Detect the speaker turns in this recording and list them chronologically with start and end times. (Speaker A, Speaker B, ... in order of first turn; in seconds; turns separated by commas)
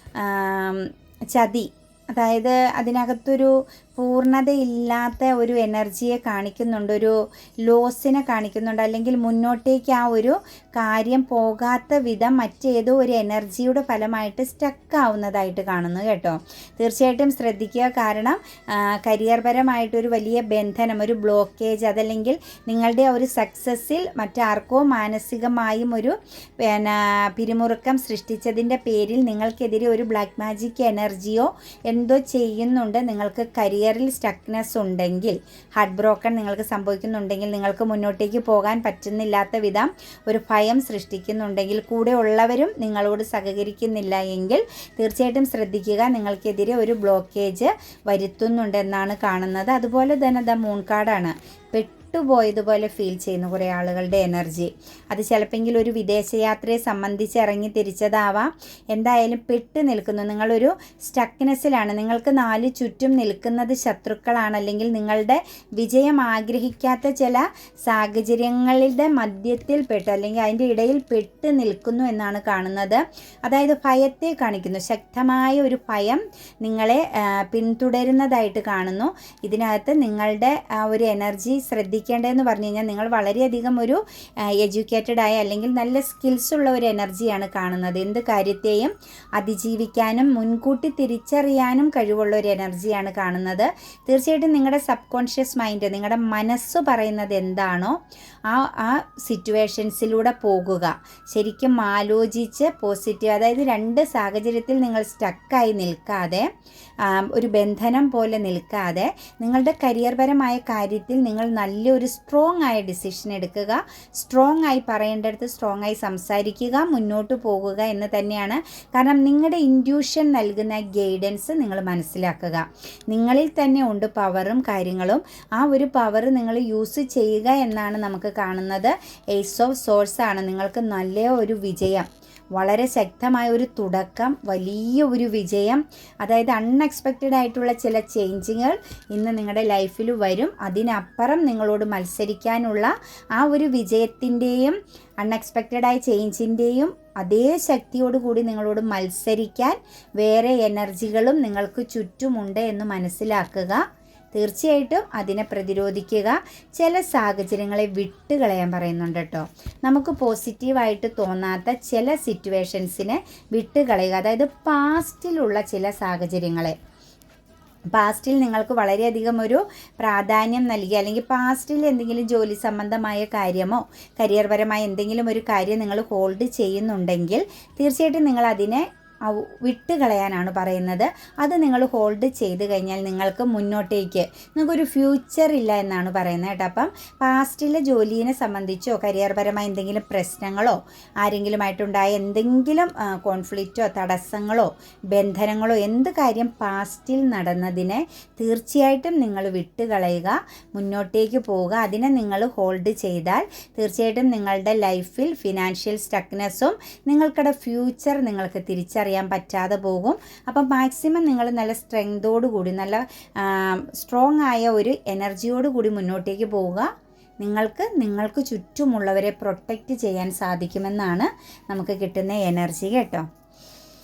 Speaker A: 0.1-84.0, Speaker A: 84.6-106.5, Speaker A: 107.0-153.8, Speaker A: 154.3-166.8, Speaker A: 167.9-223.3